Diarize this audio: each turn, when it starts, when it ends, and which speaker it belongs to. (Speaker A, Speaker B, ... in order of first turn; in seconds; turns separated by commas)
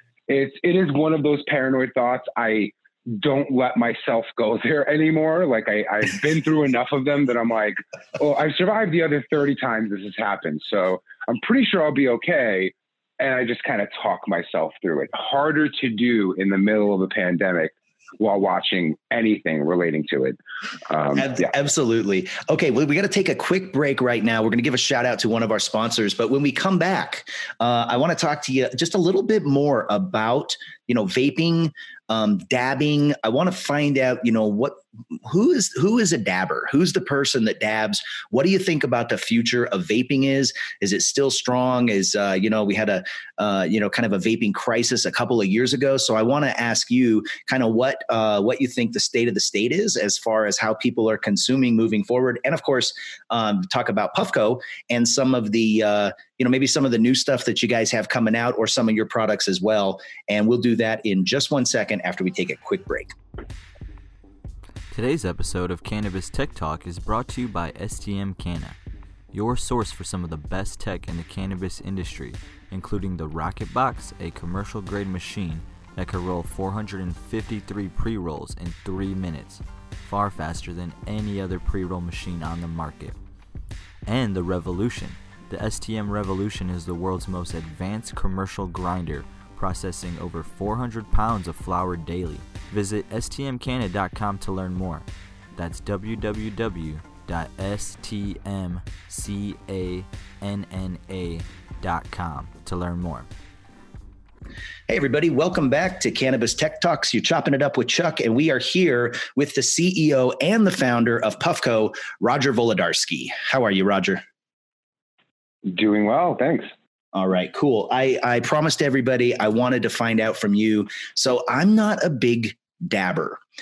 Speaker A: 0.3-21.5, Speaker B: 21.1-63.1, Speaker C: 64.9-68.8, Speaker C: 69.3-83.2, Speaker C: 84.1-103.3, Speaker B: 104.9-114.2, Speaker A: 115.7-116.7, Speaker B: 117.1-123.4